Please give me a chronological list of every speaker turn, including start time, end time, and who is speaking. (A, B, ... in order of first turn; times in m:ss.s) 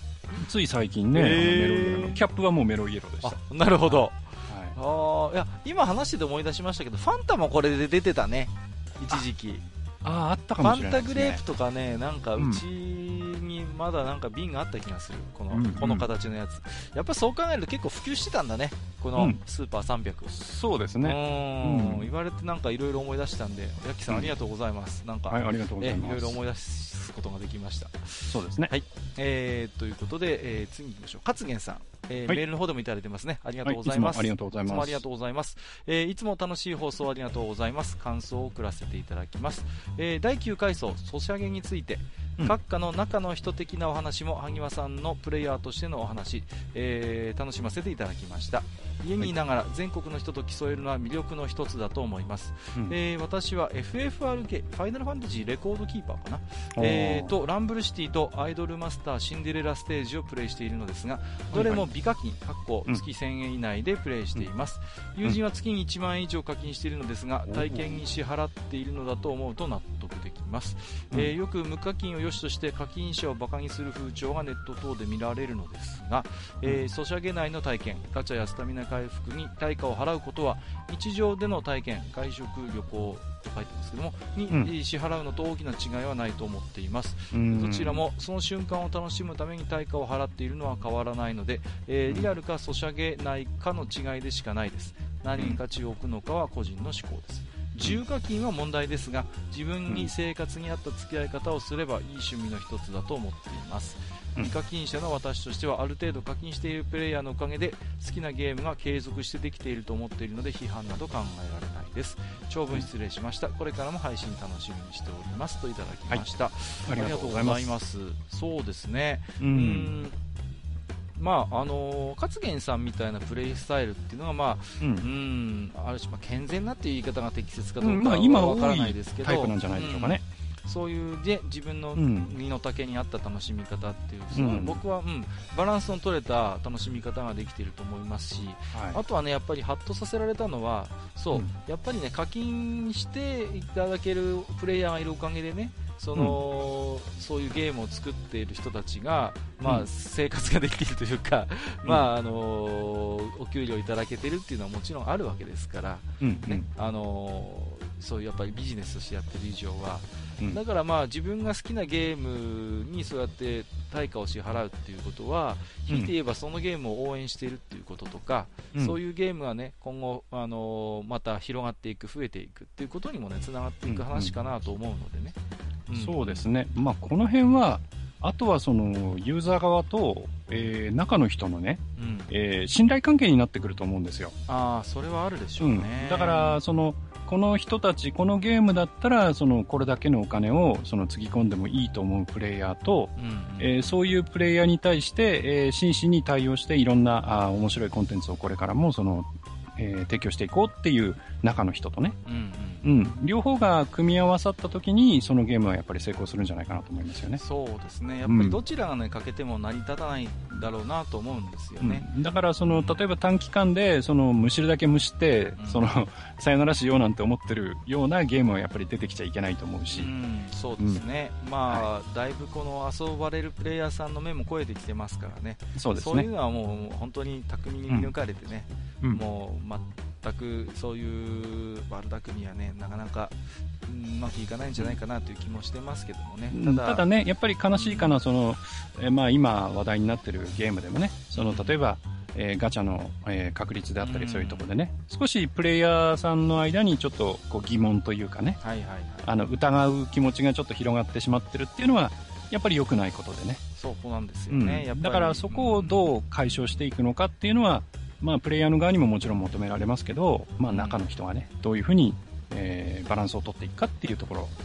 0:00.3-0:04.8 A
0:01.1-0:02.2 B
0:03.2-0:09.6 B
0:10.0-0:11.4 A
0:10.6-0:20.4 B
0:12.4-0:12.6 A
0:15.5-0:16.1 A
0:20.3-0:22.1 A
0:21.0-2:00.1 B
0:24.1-0:24.3 A
0:25.3-0:26.4 A
0:28.2-0:28.7 A
0:33.6-0:35.0 A
0:56.8-0:57.3 A
1:01.5-1:01.8 A
1:07.5-1:08.0 A
1:27.3-1:28.0 A
1:56.8-1:57.7 A
1:59.4-1:59.9 A
2:01.2-2:55.4 B
2:04.8-2:05.1 A
2:07.8-2:10.2 A
2:12.0-2:12.3 A
2:14.3-2:14.8 A
2:18.7-2:19.0 A
2:36.2-2:36.6 A
2:53.8-2:54.3 A
2:55.9-2:56.4 B
2:56.0-3:04.3 A
3:02.0-3:02.3 B
3:04.5-3:06.6 B
3:05.6-3:22.2 A
3:13.2-3:13.9 B
3:22.2-3:22.9 B
3:22.8-3:27.4 A
3:27.4-3:32.1 B
3:28.2-3:28.6 A
3:31.8-3:40.1 A
3:32.7-3:33.0 B
3:35.6-3:35.9 B
3:39.9-3:57.0 B
3:45.7-3:46.3 A
3:56.5-4:08.6 A
3:57.7-3:58.2 B
4:01.3-4:01.8 B
4:04.0-4:04.7 B
4:08.6-4:09.3 B
4:09.2-4:13.6 A
4:13.8-4:16.0 B
4:14.5-4:24.6 A
4:20.7-4:21.0 B